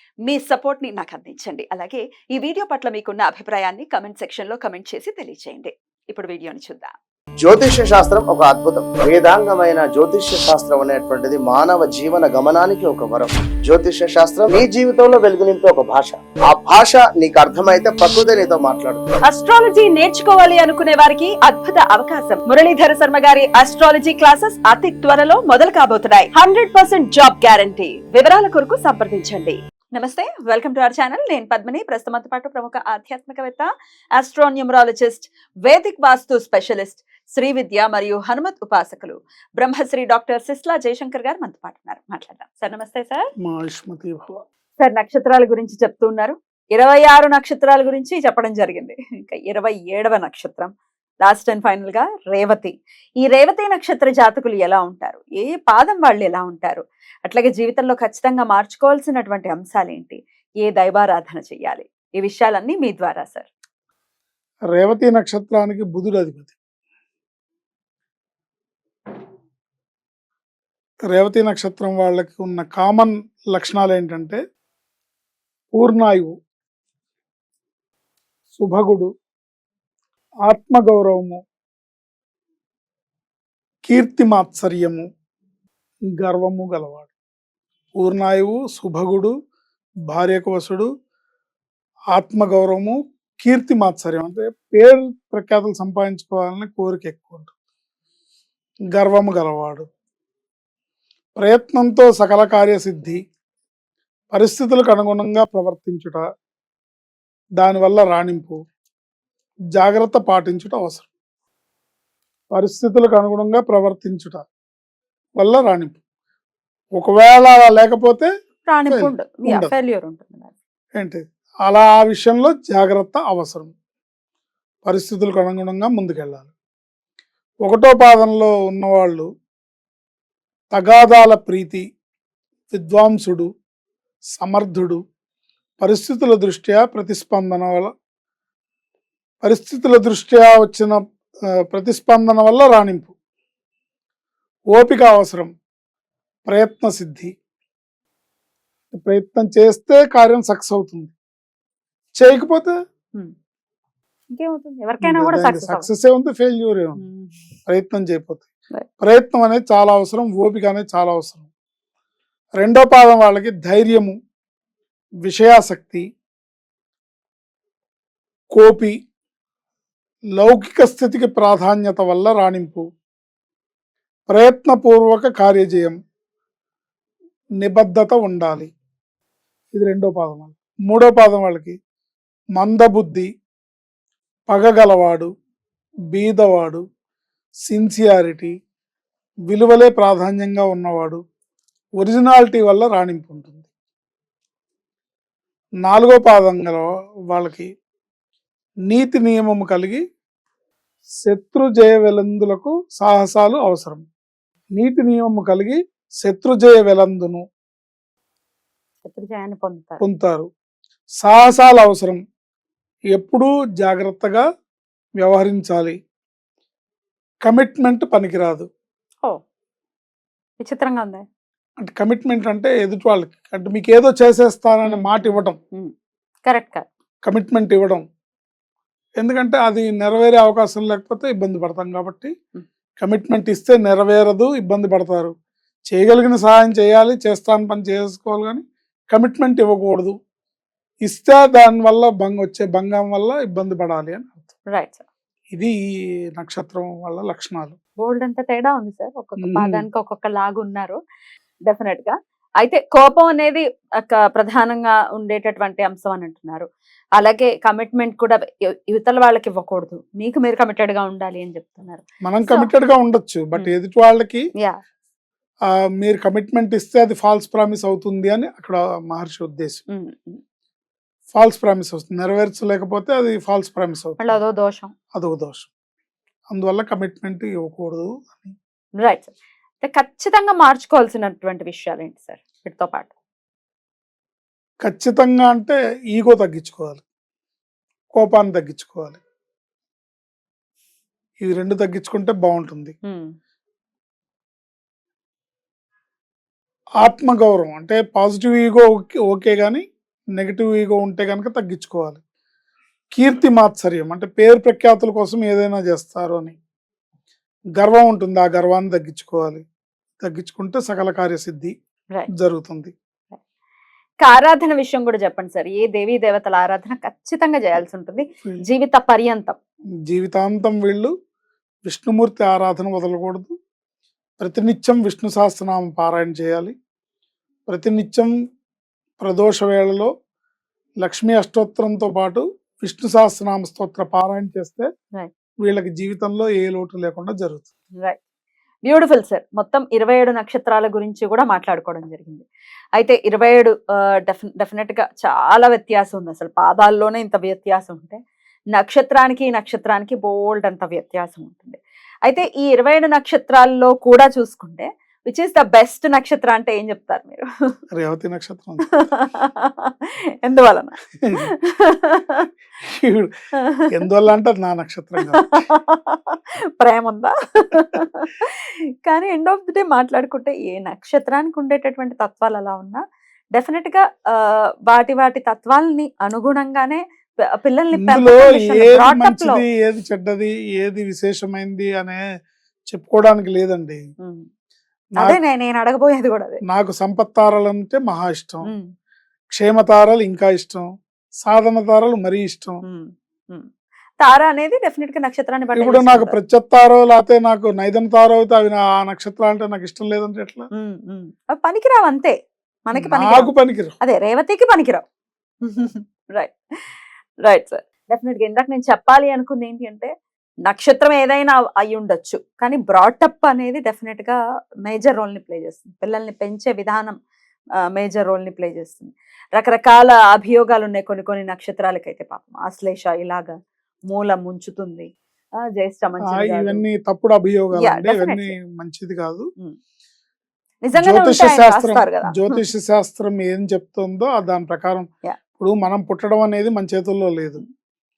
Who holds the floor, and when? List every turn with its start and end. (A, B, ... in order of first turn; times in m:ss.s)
0:00.2-0:06.9 A
0:07.4-0:19.0 B
0:19.2-0:43.3 A
0:43.4-0:44.4 C
0:44.8-0:50.7 A
0:51.2-1:03.5 A
1:04.7-1:06.6 C
1:11.1-1:14.4 C
1:15.7-1:16.3 C
1:18.6-1:19.1 C
1:20.5-1:21.4 C
1:23.8-1:25.0 C
1:26.2-1:27.1 C
1:28.0-1:29.3 C
1:30.1-1:30.9 C
1:32.1-1:37.5 C
1:38.9-1:39.9 C
1:41.4-1:43.2 C
1:44.3-1:46.2 C
1:47.6-1:48.6 C
1:49.8-1:51.1 C
1:52.5-1:54.4 C
1:55.4-1:56.0 C
1:57.0-1:58.3 C
1:58.7-2:00.5 A
1:58.9-1:59.7 C
2:01.0-2:03.7 C
2:04.9-2:06.5 C
2:07.6-2:09.3 C
2:10.7-2:11.8 C
2:12.7-2:13.5 C
2:14.4-2:15.0 C
2:15.8-2:17.9 C
2:19.4-2:21.0 C
2:21.7-2:23.1 C
2:24.7-2:25.5 C
2:26.5-2:27.3 C
2:28.9-2:31.1 C
2:32.2-2:32.7 C
2:34.3-2:35.9 A
2:35.0-2:37.0 C
2:37.0-2:37.4 A
2:37.7-2:38.5 C
2:39.0-2:41.5 C
2:42.6-2:44.1 C
2:45.2-2:46.0 C
2:48.5-2:49.0 C
2:50.4-2:52.8 C
2:54.3-2:56.0 C
2:57.6-2:58.7 C
2:59.7-3:01.8 C
3:02.6-3:03.3 C
3:04.5-3:05.3 C
3:06.1-3:06.8 C
3:07.7-3:08.5 C
3:09.5-3:11.2 C
3:12.0-3:13.7 C
3:15.8-3:17.7 C
3:18.9-3:20.0 C
3:21.2-3:24.0 C
3:24.8-3:27.4 C
3:29.0-3:30.0 A
3:30.0-3:30.5 C
3:31.2-3:32.2 C
3:33.1-3:34.4 C
3:35.2-3:36.0 C
3:37.4-3:38.7 C
3:40.6-3:41.2 A
3:41.8-3:45.6 C
3:44.9-3:45.9 A
3:46.5-3:46.9 A
3:47.2-3:48.0 C
3:49.2-3:52.3 C
3:53.0-3:55.3 C
3:55.9-4:00.1 C
4:01.1-4:04.5 C
4:04.7-4:05.0 A
4:06.4-4:07.8 C
4:08.0-4:11.0 A
4:09.4-4:09.8 C
4:11.6-4:22.7 A
4:22.2-4:24.4 C
4:26.0-4:29.8 C
4:29.9-4:30.4 A
4:31.3-4:34.4 C
4:34.2-4:34.9 A
4:35.1-4:35.7 C
4:36.5-4:38.6 C
4:39.0-4:43.1 A
4:44.8-4:47.0 C
4:48.1-4:49.2 C
4:51.4-4:52.9 C
4:53.1-4:53.3 A
4:57.0-4:59.8 C
5:00.4-5:02.2 C
5:03.1-5:06.6 C
5:07.8-5:09.6 C
5:10.2-5:11.7 C
5:12.3-5:12.9 C
5:14.2-5:19.6 A
5:20.1-5:21.1 C
5:21.9-5:23.5 C
5:24.4-5:26.7 C
5:27.7-5:28.3 C
5:29.2-5:30.1 C
5:31.0-5:34.9 C
5:35.6-5:37.7 C
5:38.9-5:48.2 A
5:48.7-5:57.8 A
5:58.0-5:58.9 C
5:58.9-6:02.5 A
6:02.8-6:03.3 C
6:03.6-6:03.9 A
6:03.9-6:05.6 C
6:05.3-6:13.0 A
6:13.5-6:17.0 A
6:17.6-6:19.6 A
6:18.0-6:22.2 C
6:22.9-6:24.0 C
6:24.2-6:24.5 A
6:25.2-6:26.6 A
6:26.7-6:28.7 C
6:29.6-6:30.9 C
6:31.4-6:32.8 C
6:32.8-6:33.7 A
6:34.2-6:36.4 A
6:35.8-6:40.7 C
6:40.8-6:42.4 A
6:42.9-6:45.0 A
6:43.0-6:44.0 C
6:45.6-6:50.1 A
6:50.6-6:57.2 A
6:57.9-7:03.6 A
7:04.1-7:05.1 A
7:05.7-7:06.8 A
7:06.3-7:09.5 C
7:07.8-7:08.6 A
7:10.8-7:12.6 A
7:11.0-7:15.1 C
7:15.6-7:17.6 C